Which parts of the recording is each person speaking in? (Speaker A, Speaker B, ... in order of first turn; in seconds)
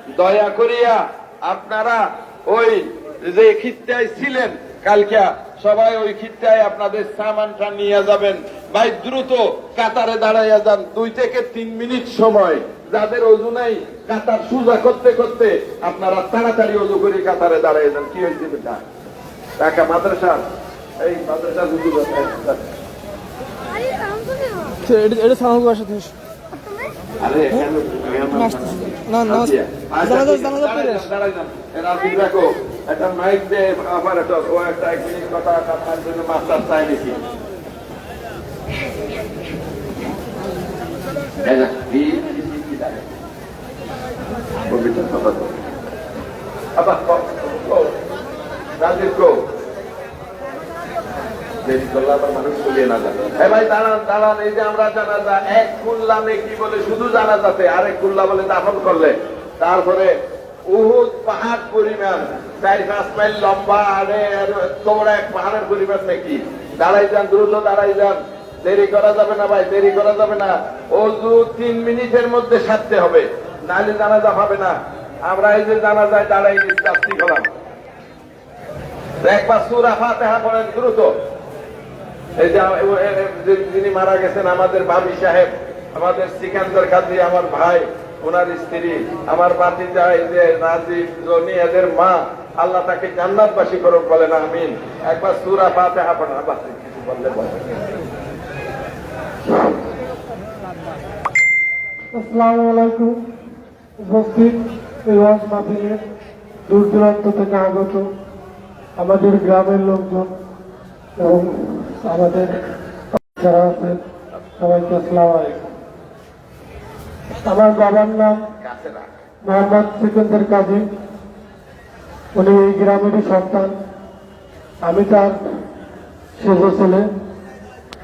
Speaker A: 0.2-18.8, 19.6-20.4, 21.0-22.7, 27.2-37.2, 41.4-43.1, 44.6-45.6, 46.8-47.9, 48.8-49.4, 51.6-60.1, 60.7-77.5, 79.2-81.1, 82.4-97.8, 118.6-119.1
Speaker B: 24.8-26.1, 28.6-29.5, 30.2-31.0
Speaker C: 102.1-103.2, 104.0-106.0, 106.7-108.1, 109.0-110.3, 111.2-112.5, 113.2-114.0, 114.6-115.7, 117.5-118.4, 119.5-120.8, 122.3-123.8, 124.8-125.4, 126.4-127.1